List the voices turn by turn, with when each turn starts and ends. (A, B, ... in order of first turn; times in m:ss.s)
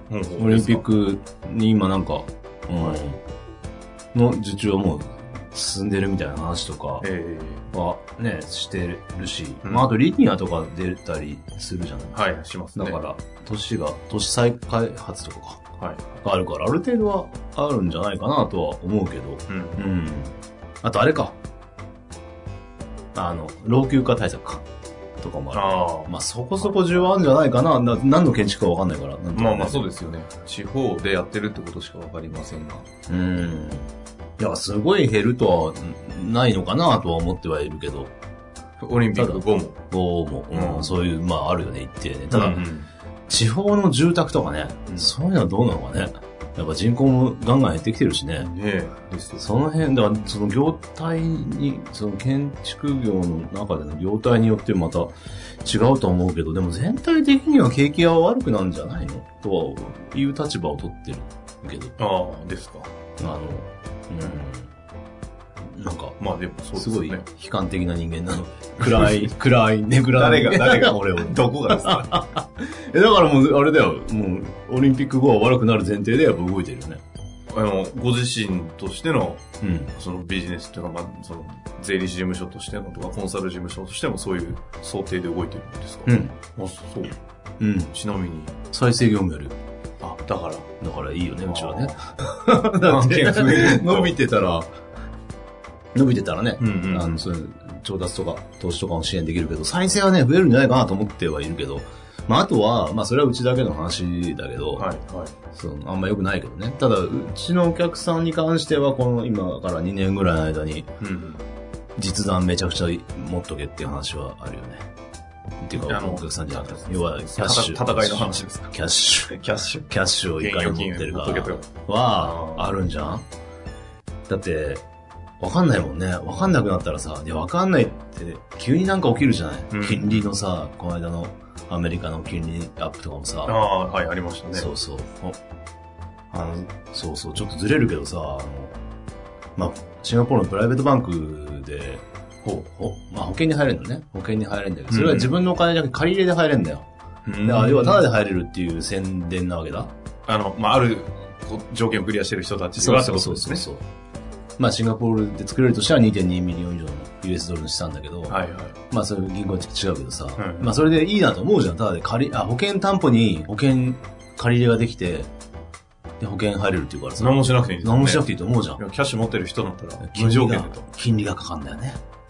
0:00.1-0:00.8 A
0:00.4-0:03.2 B
0:04.1-0:07.1 B
0:07.0-0:07.6 A
0:07.7-0:12.2 B
0:09.6-0:09.9 A
0:12.1-0:13.0 A
0:12.8-0:15.6 B
0:15.8-0:16.0 A
0:16.2-0:21.4 B
0:19.5-0:19.9 A
0:23.1-0:24.6 B
0:25.2-0:29.9 B
0:25.5-0:27.1 A
0:29.4-0:32.9 A
0:33.1-0:38.1 B
0:38.8-0:39.8 A
0:39.2-0:42.6 B
0:40.5-0:41.0 A
0:42.3-0:42.9 A
0:43.3-0:48.5 B
0:48.4-0:49.4 A
0:49.4-1:02.0 B
1:02.0-1:02.9 A
1:03.2-1:04.7 B
1:05.7-1:06.2 B
1:06.2-1:07.2 A
1:06.8-1:17.0 B
1:08.8-1:09.2 A
1:10.2-1:12.2 A
1:17.5-1:27.2 A
1:19.6-1:19.9 B
1:26.1-1:26.4 B
1:27.6-1:27.9 B
1:27.9-1:28.6 A
1:28.7-1:29.6 B
1:30.0-1:30.7 A
1:30.8-1:34.7 B
1:31.4-1:32.0 A
1:32.8-1:34.2 A
1:35.9-1:44.9 B
1:36.6-1:37.2 A
1:44.8-1:45.4 A
1:45.5-1:50.9 B
1:51.0-1:51.4 A
1:52.0-1:54.9 B
1:55.6-1:59.4 B
1:55.8-1:58.7 A
1:59.3-2:02.7 A
1:59.9-2:03.3 B
2:04.3-2:04.8 B
2:05.4-2:13.6 B
2:09.7-2:10.3 A
2:13.5-2:14.7 A
2:14.5-2:15.4 B
2:16.3-2:18.8 B
2:19.6-2:22.0 B
2:22.4-2:22.7 A
2:22.8-2:26.9 B
2:24.9-2:25.3 A
2:27.3-2:28.1 A
2:27.4-2:29.9 B
2:30.3-2:33.6 A
2:32.8-2:33.8 B
2:34.6-2:38.4 B
2:38.3-2:38.8 A
2:38.9-2:45.3 B
2:40.4-2:40.8 A
2:46.2-2:48.8 B
2:47.2-2:50.8 A
2:50.0-2:52.0 B